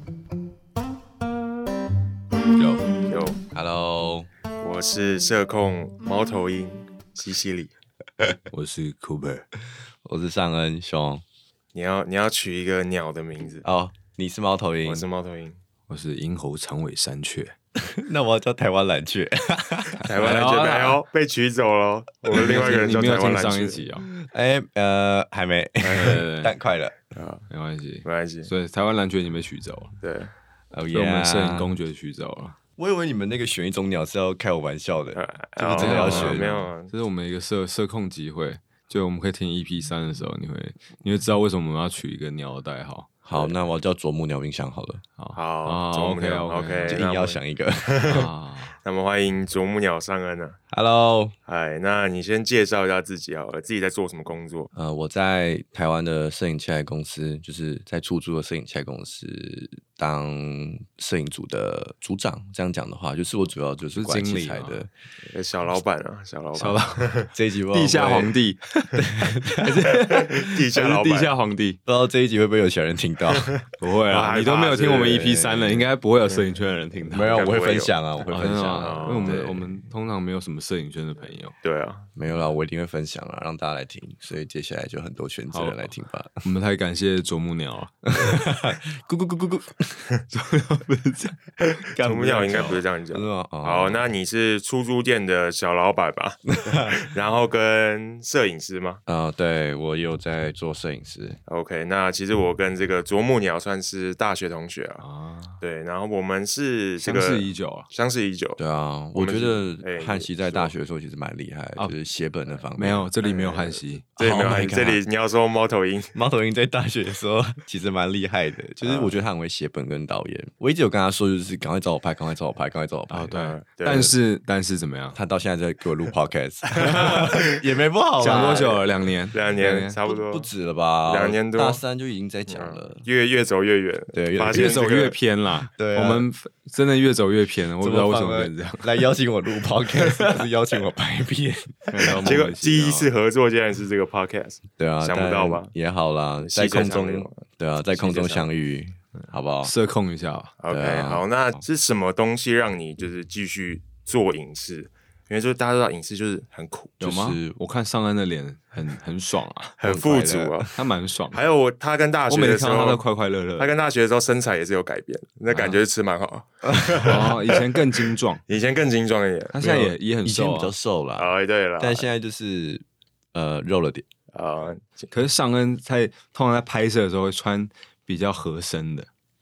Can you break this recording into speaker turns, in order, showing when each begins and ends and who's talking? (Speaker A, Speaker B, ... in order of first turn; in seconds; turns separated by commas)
Speaker A: 2.6-2.9, Speaker B: 3.1-3.4, Speaker C: 3.5-4.3, Speaker B: 4.6-7.7, Speaker A: 8.5-9.4, Speaker C: 10.0-11.2, Speaker B: 11.7-13.7, Speaker C: 13.6-15.1, Speaker B: 14.8-15.6, Speaker A: 15.9-17.6, Speaker C: 17.8-20.0, Speaker B: 20.0-23.8, Speaker A: 20.1-21.0, Speaker A: 22.3-24.1, Speaker C: 24.0-27.0, Speaker A: 25.8-26.6, Speaker B: 27.1-27.4, Speaker A: 27.5-30.0, Speaker B: 28.0-28.5, Speaker B: 30.0-30.3, Speaker C: 30.7-31.8, Speaker A: 30.9-32.6, Speaker C: 32.8-35.2, Speaker B: 35.1-36.9, Speaker A: 35.6-43.1, Speaker C: 35.8-36.5, Speaker C: 43.2-45.0, Speaker A: 45.2-47.1, Speaker B: 45.3-48.3, Speaker C: 46.9-48.8, Speaker B: 48.8-50.6, Speaker C: 50.7-51.4, Speaker B: 51.5-54.7, Speaker C: 54.7-64.9, Speaker A: 63.9-64.8, Speaker B: 65.3-67.3, Speaker A: 66.6-68.8, Speaker C: 67.3-68.4, Speaker C: 68.9-70.0, Speaker A: 69.5-71.8, Speaker B: 70.1-71.3, Speaker C: 71.9-73.5, Speaker B: 73.4-75.2, Speaker A: 73.8-77.4, Speaker C: 74.8-75.9, Speaker C: 77.1-79.7, Speaker B: 77.3-77.9, Speaker A: 78.3-81.6, Speaker B: 78.8-79.4, Speaker B: 81.6-82.1, Speaker C: 82.2-86.4, Speaker A: 85.5-85.8, Speaker A: 86.4-88.1, Speaker C: 88.1-90.0, Speaker A: 90.3-92.8, Speaker B: 92.0-99.0, Speaker C: 93.1-94.1, Speaker C: 96.5-97.0, Speaker C: 99.1-101.4, Speaker B: 101.5-105.0, Speaker A: 105.0-105.6, Speaker B: 105.6-108.6, Speaker A: 107.0-107.9, Speaker C: 108.6-113.1, Speaker B: 109.2-110.7, Speaker A: 112.8-114.1, Speaker B: 113.2-116.2, Speaker C: 114.2-115.0, Speaker C: 116.1-123.3, Speaker B: 118.8-119.2, Speaker A: 123.1-125.2, Speaker B: 123.3-124.2, Speaker C: 125.1-128.8, Speaker B: 126.9-127.5, Speaker A: 128.2-130.0, Speaker B: 129.3-130.5, Speaker C: 130.1-133.1, Speaker B: 131.1-131.8, Speaker B: 132.5-135.2, Speaker C: 134.1-134.8, Speaker A: 134.5-139.0, Speaker C: 135.7-136.2, Speaker C: 137.8-142.4, Speaker A: 141.9-143.1, Speaker B: 142.1-145.7, Speaker C: 144.8-149.7, Speaker B: 146.4-148.5, Speaker A: 149.2-150.5, Speaker B: 150.6-157.0, Speaker C: 150.7-151.6, Speaker A: 157.0-159.9, Speaker C: 157.0-157.5, Speaker B: 159.8-160.8, Speaker C: 159.8-160.6, Speaker A: 160.7-161.4, Speaker B: 161.3-163.0, Speaker A: 162.3-163.7, Speaker B: 163.6-169.6, Speaker A: 165.5-165.8, Speaker A: 167.0-168.4, Speaker A: 169.5-170.7, Speaker C: 169.6-174.1, Speaker B: 171.2-172.1, Speaker B: 174.3-175.1, Speaker A: 175.1-179.1